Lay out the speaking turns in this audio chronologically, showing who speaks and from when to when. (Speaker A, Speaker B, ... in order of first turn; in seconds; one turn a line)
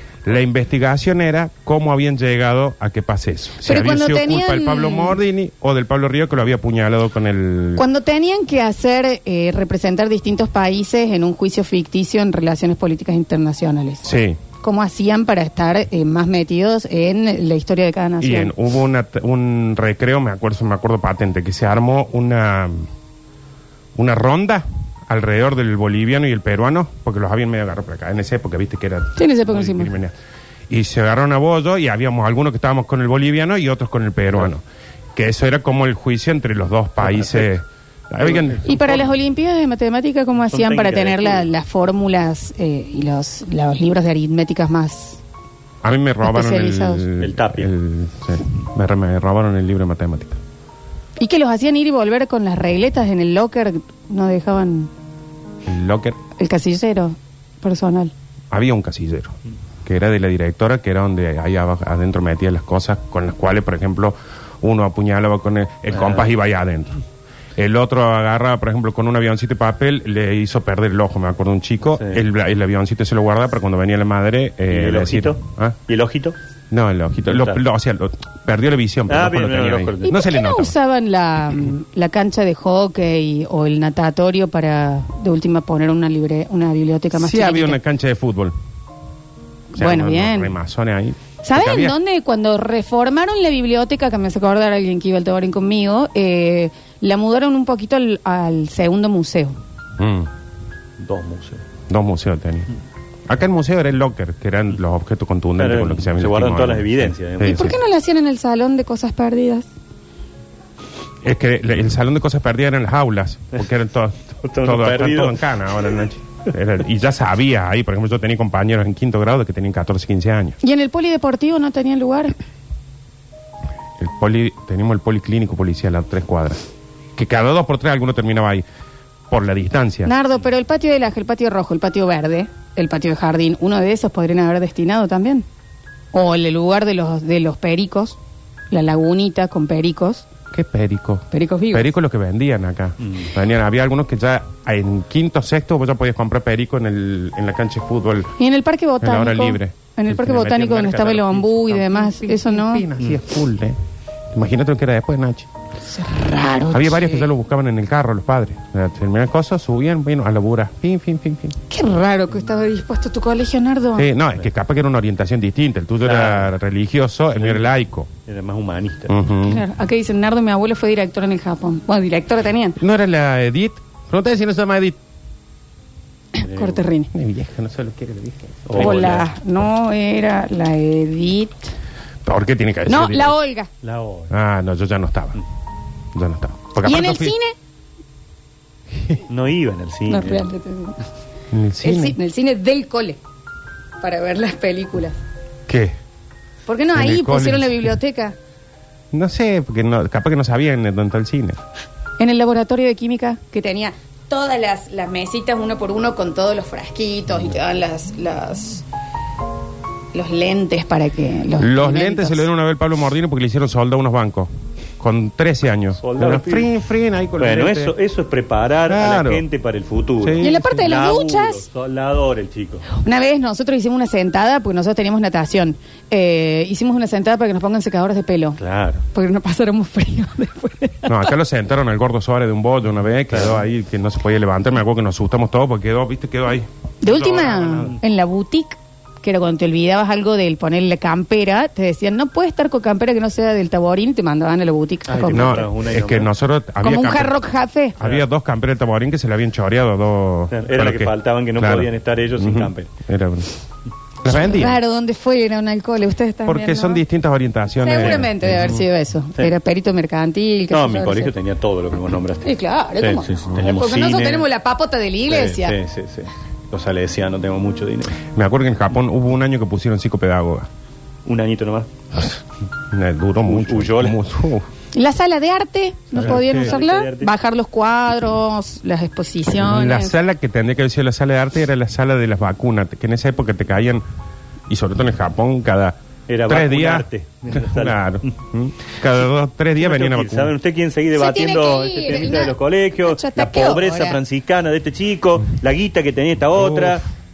Speaker A: 0.2-7.8
Speaker B: 3.6-5.2
Speaker B: 7.8-14.1
Speaker A: 14.0-14.4
Speaker B: 14.6-18.5
Speaker A: 18.2-22.9
Speaker A: 24.0-30.1
Speaker B: 29.2-29.9
Speaker A: 30.7-34.6
Speaker A: 35.1-38.8
Speaker C: 37.0-37.5
Speaker C: 38.2-39.0
Speaker B: 38.6-45.2
Speaker C: 40.5-41.5
Speaker A: 45.8-50.4
Speaker B: 46.2-47.0
Speaker C: 47.2-47.7
Speaker B: 51.2-54.9
Speaker A: 55.7-56.2
Speaker B: 56.4-58.1
Speaker A: 58.5-67.0
Speaker C: 65.9-66.3
Speaker A: 67.6-75.8
Speaker C: 71.9-72.2
Speaker C: 74.7-76.4
Speaker A: 76.7-80.7
Speaker C: 77.3-77.6
Speaker C: 79.1-80.1
Speaker B: 80.1-87.8
Speaker A: 87.1-88.5
Speaker A: 89.7-92.0
Speaker B: 89.8-90.5
Speaker B: 91.4-99.6
Speaker A: 100.0-100.3
Speaker C: 101.0-101.6
Speaker A: 101.9-102.7
Speaker A: 103.3-107.8
Speaker C: 105.6-107.7
Speaker B: 107.4-109.7
Speaker A: 111.2-120.6
Speaker C: 114.4-115.5
Speaker B: 120.6-122.3
Speaker A: 124.0-126.6
Speaker A: 127.2-128.7
Speaker A: 129.3-130.1
Speaker B: 130.1-135.4
Speaker B: 136.1-138.2
Speaker B: 138.7-140.3
Speaker A: 140.5-148.3
Speaker B: 141.3-141.9
Speaker C: 143.0-143.3
Speaker B: 148.4-152.9
Speaker A: 149.0-150.8
Speaker C: 150.4-151.7
Speaker A: 151.7-153.8
Speaker A: 154.3-155.5
Speaker B: 155.9-157.3
Speaker A: 156.7-161.5
Speaker B: 161.7-164.1
Speaker A: 164.0-168.1
Speaker C: 166.0-166.5
Speaker C: 167.4-167.7
Speaker C: 168.3-169.1
Speaker A: 169.1-169.6
Speaker B: 169.5-172.8
Speaker A: 172.8-175.0
Speaker B: 176.3-177.1
Speaker C: 176.4-176.8
Speaker A: 177.1-179.3
Speaker C: 178.7-179.3
Speaker B: 178.8-181.7
Speaker A: 182.2-183.4
Speaker B: 182.9-183.7
Speaker C: 183.8-184.3
Speaker A: 184.3-185.4
Speaker A: 186.2-187.3
Speaker B: 186.8-187.6
Speaker C: 189.3-190.4
Speaker B: 190.1-191.0
Speaker A: 191.5-192.2
Speaker B: 191.8-193.2
Speaker B: 194.0-195.2
Speaker A: 195.7-195.9
Speaker B: 196.7-198.4
Speaker A: 196.9-197.9
Speaker A: 199.1-201.6
Speaker B: 202.2-208.8
Speaker B: 210.1-212.5
Speaker A: 211.6-214.5
Speaker A: 215.0-217.9
Speaker C: 216.0-216.7
Speaker C: 217.4-222.9
Speaker A: 218.9-219.4
Speaker A: 220.2-220.9
Speaker B: 220.4-221.7
Speaker B: 222.9-228.6
Speaker C: 228.6-229.0
Speaker B: 229.1-231.3
Speaker A: 231.1-237.9
Speaker C: 233.3-233.6
Speaker B: 237.0-245.7
Speaker C: 245.1-246.3
Speaker A: 245.3-247.4
Speaker B: 246.8-248.0
Speaker A: 248.0-253.5
Speaker C: 248.0-248.3
Speaker C: 250.5-252.9
Speaker A: 254.2-254.8
Speaker B: 254.3-257.0
Speaker A: 256.5-258.8
Speaker B: 257.8-261.3
Speaker C: 258.0-258.2
Speaker C: 260.7-264.5
Speaker B: 262.4-265.8
Speaker C: 265.3-268.2
Speaker A: 268.3-270.7
Speaker C: 271.3-271.9
Speaker A: 272.9-274.7
Speaker C: 273.4-274.2
Speaker B: 274.9-280.1
Speaker A: 276.1-276.8
Speaker C: 276.2-277.3
Speaker A: 279.6-284.0
Speaker A: 284.7-286.0
Speaker C: 286.3-288.2
Speaker A: 286.5-290.5
Speaker C: 289.8-297.0
Speaker B: 291.1-294.2
Speaker A: 296.5-297.0